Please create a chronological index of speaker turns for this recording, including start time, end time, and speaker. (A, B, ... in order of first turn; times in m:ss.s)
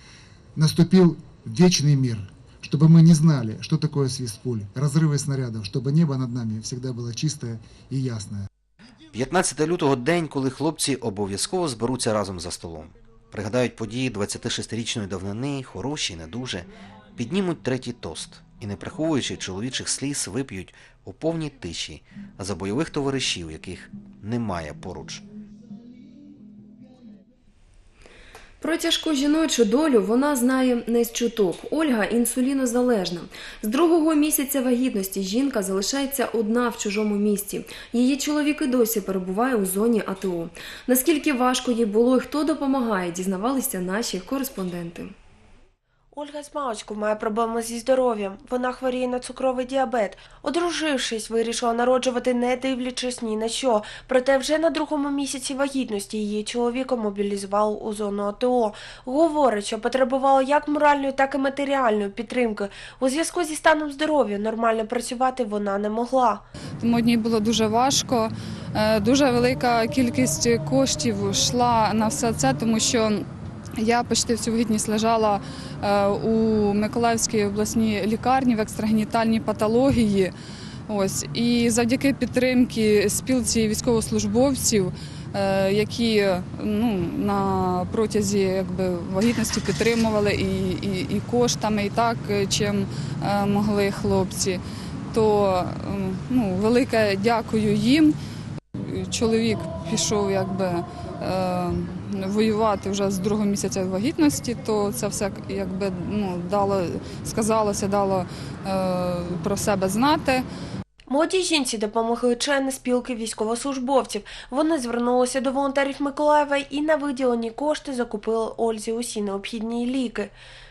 0:00.5-0:08.4 A
0:09.1-0:25.2 B
0:28.6-0:45.1 C
0:46.1-1:06.4 D
1:06.8-1:13.2 E
1:13.8-1:20.3 E
1:20.9-1:34.6 E
1:35.1-1:38.1 E
1:38.8-1:50.4 E
1:51.1-2:00.3 D